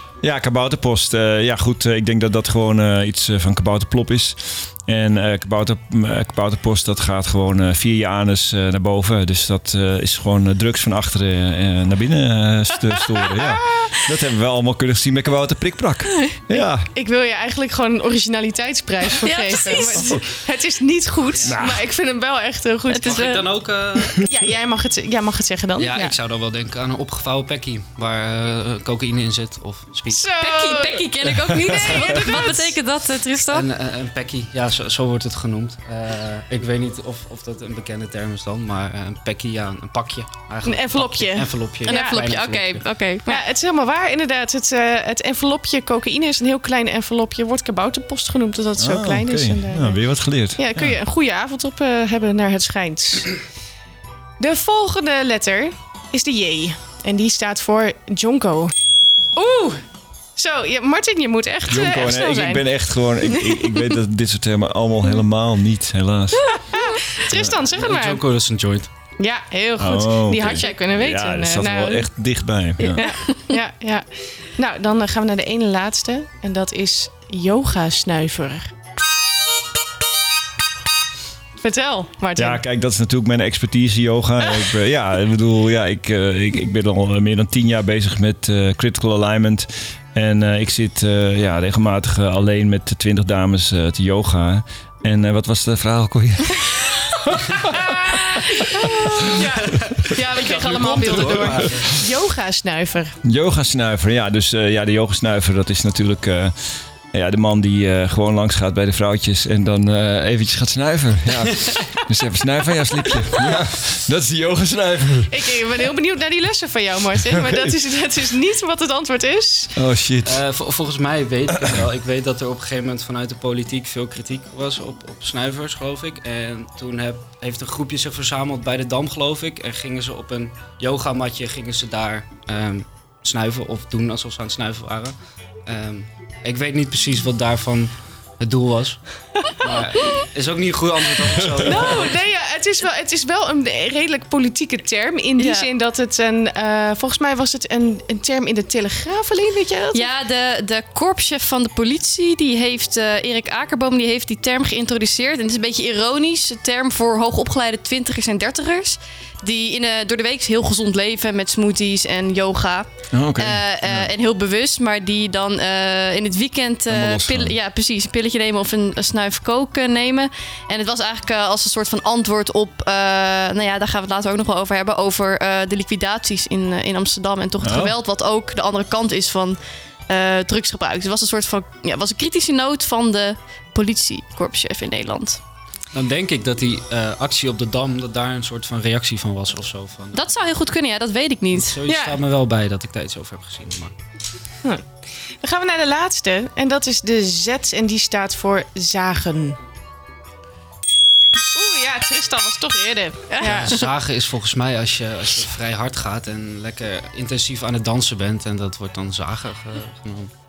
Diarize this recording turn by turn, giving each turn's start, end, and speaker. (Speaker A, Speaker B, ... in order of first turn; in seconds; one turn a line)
Speaker A: 0.2-16.9
Speaker B: 16.5-23.4
Speaker C: 19.2-20.1
Speaker D: 21.3-21.7
Speaker A: 21.4-21.8
Speaker C: 22.9-23.4
Speaker D: 23.0-24.2
Speaker B: 24.1-26.1
Speaker D: 25.8-30.2
Speaker B: 30.1-31.0
Speaker C: 30.4-33.6
Speaker B: 31.7-32.7
Speaker D: 33.5-42.8
Speaker B: 40.6-42.1
Speaker C: 41.9-43.4
Speaker B: 43.3-50.0
Speaker A: 48.8-51.0
Speaker B: 50.5-53.3
Speaker B: 54.4-58.7
Speaker B: 59.4-59.8
Speaker B: 60.4-63.6
Speaker A: 61.7-67.5
Speaker B: 66.6-68.2
Speaker D: 67.7-68.9
Speaker B: 69.2-72.1
Speaker A: 69.8-73.0
Speaker C: 72.8-73.3
Speaker B: 73.0-78.7
Speaker B: 81.6-82.6
Speaker A: 82.3-98.6
Speaker B: 97.7-103.2
Speaker D: 99.3-102.0
Speaker A: 100.7-101.9
Speaker A: 103.2-115.3
Speaker D: 111.3-111.9
Speaker B: 115.3-119.7
Speaker A: 117.3-117.7
Speaker A: 119.8-120.4
Speaker D: 120.2-135.1
Speaker D: 135.7-139.0
Speaker D: 139.6-142.1
Speaker B: 141.6-150.1
Speaker C: 145.4-145.7
Speaker C: 149.9-185.4
Speaker A: 163.1-164.1
Speaker A: 166.9-167.5
Speaker A: 177.6-177.9
Speaker D: 185.9-190.4
Speaker C: 190.1-191.8
Speaker D: 191.5-193.9
Speaker B: 191.9-192.2
Speaker B: 195.4-199.6
Speaker B: 201.5-203.8
Speaker D: 203.4-210.3